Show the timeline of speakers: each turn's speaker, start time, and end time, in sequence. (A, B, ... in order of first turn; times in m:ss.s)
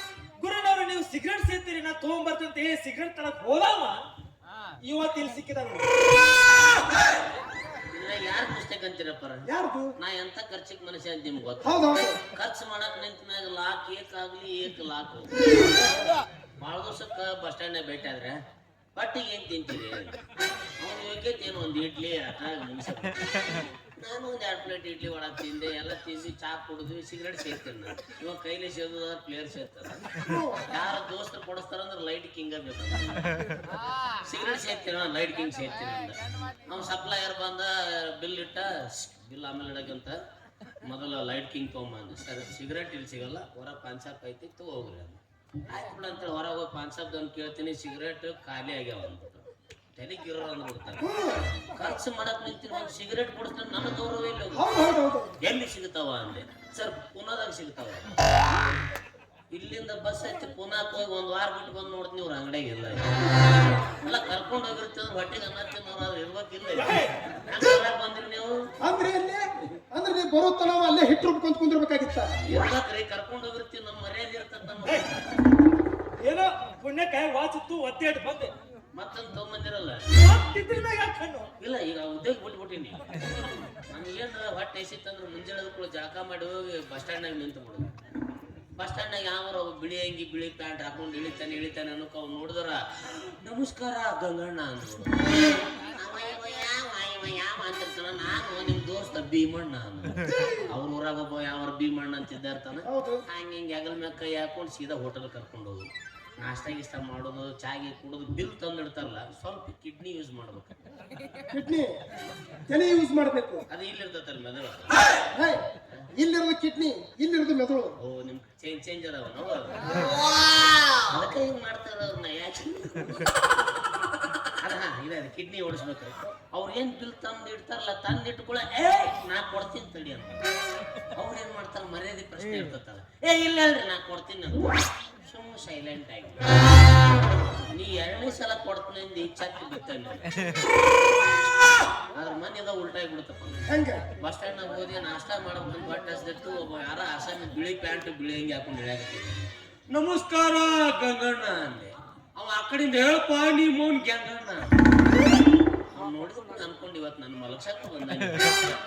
0:00.4-0:04.0 A
0:04.8-0:05.9 A
0:07.9-0:09.4 B
0:09.5-0:09.9 C
0:10.0-0:15.3 B
0:11.6-0:12.2 C
0:15.7-0:16.1 C
0:16.6-0:18.4 B
0:19.0-0:20.2 B
0:20.8-0:23.2 B
0:24.0-0:30.0 B
0:30.2-0:30.6 C
0:30.7-0:33.2 B
0:34.2-0:36.2 B
0:36.7-0:40.2 B
0:40.8-0:45.2 B
0:45.7-0:49.4 B
0:50.0-0:51.0 B
0:51.0-0:51.4 C
0:51.7-0:54.6 B
0:54.5-0:55.3 C
0:55.4-0:58.1 B
0:59.5-1:03.1 B
1:04.0-1:07.0 B
1:06.7-1:07.1 A
1:07.5-1:08.5 B
1:08.8-1:12.3 C
1:12.4-1:15.2 B
1:14.8-1:15.1 A
1:16.2-1:18.5 A
1:18.9-1:20.0 B
1:20.2-1:21.5 A
1:21.6-1:23.0 B
1:23.9-1:27.9 B
1:28.8-1:35.3 B
1:35.9-1:40.1 B
1:40.7-1:45.8 B
1:42.9-1:43.2 C
1:46.4-1:50.8 B
1:51.5-1:52.0 C
1:52.7-1:53.6 C
1:53.7-1:54.9 B
1:55.3-1:55.6 C
1:56.2-1:57.9 C
1:58.0-2:00.0 B
2:01.1-2:03.3 B
2:04.6-2:10.4 B
2:11.1-2:16.5 B
2:17.7-2:20.3 B
2:22.1-2:23.6 B
2:23.7-2:24.0 C
2:24.2-2:34.7 B
2:35.9-2:38.6 B